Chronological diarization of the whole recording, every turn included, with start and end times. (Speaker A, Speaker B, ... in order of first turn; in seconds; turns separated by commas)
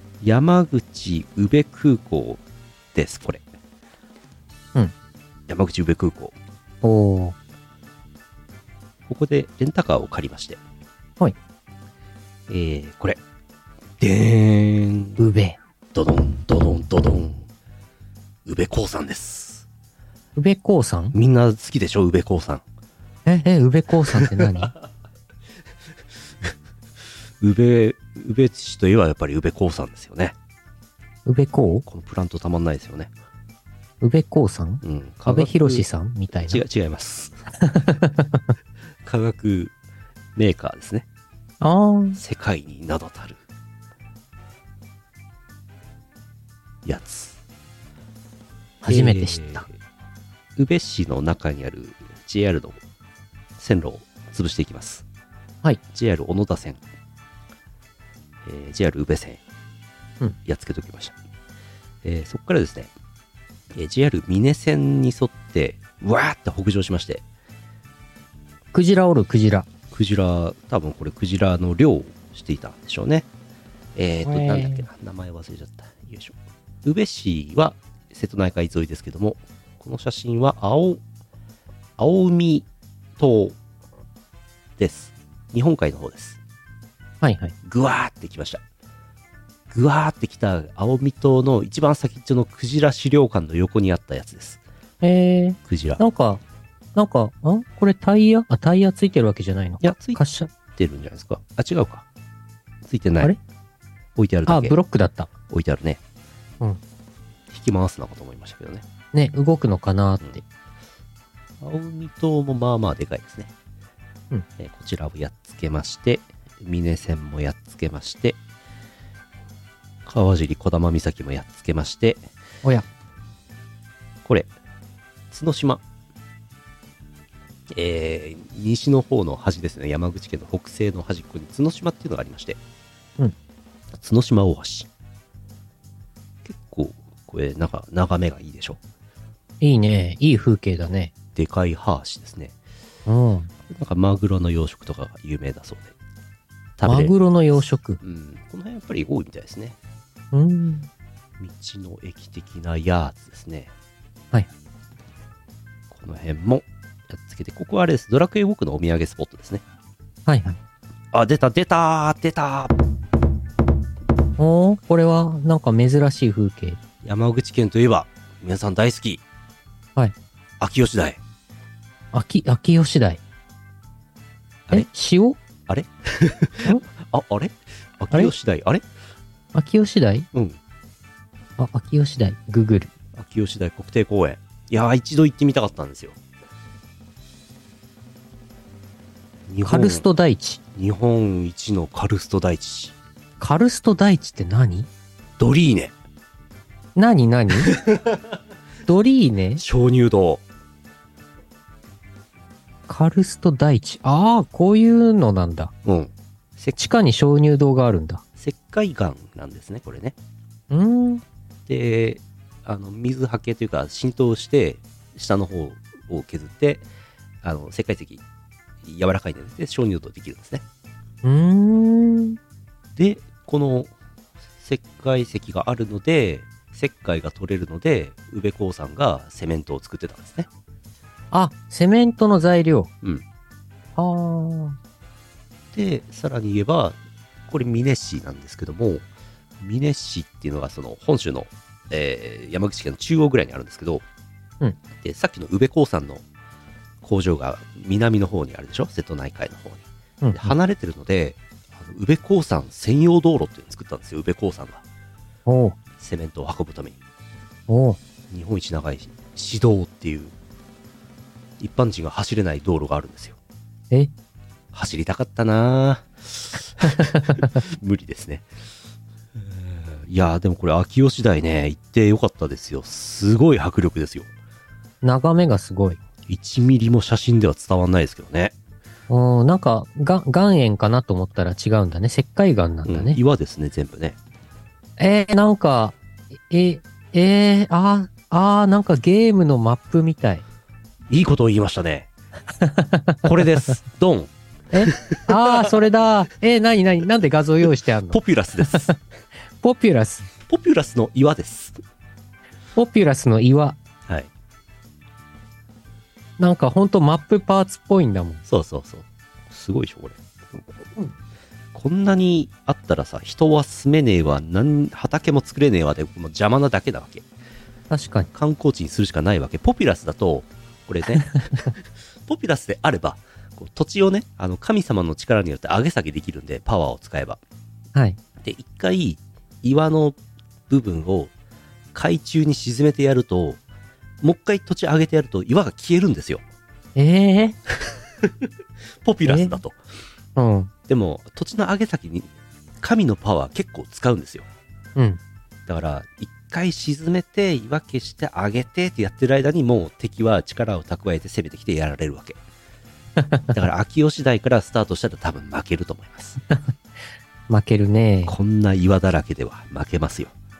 Speaker A: 0.2-2.4, Speaker A: 2.9-3.4, Speaker A: 5.5-6.3, Speaker B: 6.8-7.3, Speaker A: 9.1-10.6, Speaker A: 12.5-13.2, Speaker A: 14.0-15.2, Speaker B: 15.2-15.6, Speaker A: 15.9-17.4, Speaker A: 18.4-19.7, Speaker B: 20.4-21.1, Speaker A: 21.1-22.6, Speaker B: 23.3-24.7, Speaker A: 24.1-24.5, Speaker A: 27.4-30.4, Speaker B: 31.3-31.9, Speaker A: 31.9-33.1, Speaker B: 34.0-36.6, Speaker A: 34.8-35.9, Speaker A: 36.4-37.4, Speaker B: 37.6-38.4, Speaker A: 39.0-39.7, Speaker A: 40.4-41.1, Speaker B: 41.6-42.2, Speaker A: 42.1-43.4, Speaker A: 46.9-47.4, Speaker B: 48.8-49.6, Speaker A: 48.9-49.7, Speaker A: 50.6-52.8, Speaker A: 53.6-55.0, Speaker A: 55.9-56.8, Speaker A: 58.4-59.4, Speaker A: 60.5-61.1, Speaker A: 62.0-62.9, Speaker A: 63.7-67.2, Speaker B: 68.7-69.7, Speaker A: 69.9-73.3, Speaker A: 74.0-81.0, Speaker B: 74.3-74.8, Speaker A: 82.0-83.6, Speaker A: 84.8-86.4, Speaker B: 87.2-87.5, Speaker A: 87.6-88.6, Speaker A: 89.7-94.6, Speaker B: 95.0-96.4, Speaker A: 95.7-96.0, Speaker B: 97.0-100.5, Speaker A: 99.8-102.1, Speaker A: 102.8-103.3, Speaker A: 104.2-104.8, Speaker B: 104.5-105.3, Speaker A: 105.5-106.0, Speaker A: 107.5-108.8, Speaker B: 109.1-110.4, Speaker A: 111.6-113.5, Speaker A: 114.6-118.4, Speaker A: 120.1-122.3, Speaker A: 124.2-124.5, Speaker A: 125.3-125.8, Speaker A: 127.7-132.6, Speaker A: 133.9-134.9, Speaker A: 136.4-138.8, Speaker B: 139.6-141.1, Speaker A: 141.3-142.6, Speaker B: 143.1-143.5, Speaker A: 143.7-145.9, Speaker A: 146.8-147.1, Speaker B: 146.9-148.0, Speaker A: 148.0-149.8, Speaker B: 150.3-150.9, Speaker A: 151.4-153.7, Speaker A: 155.9-159.6, Speaker B: 160.3-160.6, Speaker A: 161.1-162.8, Speaker B: 164.4-166.8, Speaker A: 167.0-169.2, Speaker A: 170.6-171.2, Speaker B: 172.1-173.2, Speaker B: 174.7-175.4, Speaker A: 175.7-178.8, Speaker B: 179.5-180.3, Speaker A: 180.3-180.6, Speaker B: 181.6-182.9, Speaker A: 183.1-186.2, Speaker A: 189.5-190.0, Speaker B: 189.6-190.6, Speaker A: 190.7-192.9, Speaker B: 193.4-194.9, Speaker A: 195.4-195.9, Speaker B: 196.9-197.8, Speaker A: 197.7-198.2, Speaker B: 198.9-199.6, Speaker A: 199.6-200.4, Speaker B: 202.9-205.7, Speaker A: 205.8-206.8, Speaker B: 206.8-208.2, Speaker A: 208.4-210.1, Speaker B: 210.7-211.2, Speaker A: 211.7-216.9, Speaker A: 217.4-218.2, Speaker A: 218.8-220.6, Speaker B: 221.2-222.4, Speaker A: 222.9-223.9, Speaker A: 224.6-230.5, Speaker B: 231.3-232.9, Speaker B: 234.0-234.8, Speaker A: 235.7-239.1, Speaker A: 239.6-244.0, Speaker A: 245.0-246.2, Speaker A: 247.0-254.8, Speaker B: 250.2-250.5, Speaker B: 255.5-255.8, Speaker A: 256.0-257.0, Speaker B: 257.7-258.0, Speaker A: 258.3-260.3, Speaker A: 261.6-263.4, Speaker A: 264.7-268.5, Speaker A: 269.4-274.3, Speaker B: 275.0-276.0, Speaker A: 276.3-278.5, Speaker B: 279.1-283.2, Speaker A: 282.9-284.2, Speaker B: 285.0-286.0, Speaker B: 286.5-290.4, Speaker A: 291.1-292.1, Speaker B: 292.6-293.2, Speaker A: 293.2-294.3, Speaker B: 294.7-299.0, Speaker A: 294.8-295.8, Speaker A: 298.1-298.9, Speaker B: 299.6-300.2, Speaker A: 300.5-301.8, Speaker B: 302.8-303.8, Speaker B: 306.4-308.4, Speaker A: 308.5-310.9, Speaker A: 311.7-317.3, Speaker B: 317.9-318.3, Speaker A: 318.3-327.4, Speaker A: 328.4-330.2, Speaker A: 330.7-331.3, Speaker A: 331.9-333.6, Speaker A: 334.2-336.4, Speaker B: 337.0-337.6, Speaker A: 339.0-339.8, Speaker B: 339.2-339.6, Speaker B: 340.4-340.7, Speaker A: 340.9-344.5, Speaker A: 345.7-352.4, Speaker B: 353.2-353.5, Speaker A: 353.5-356.4, Speaker B: 357.5-358.3, Speaker A: 358.3-360.4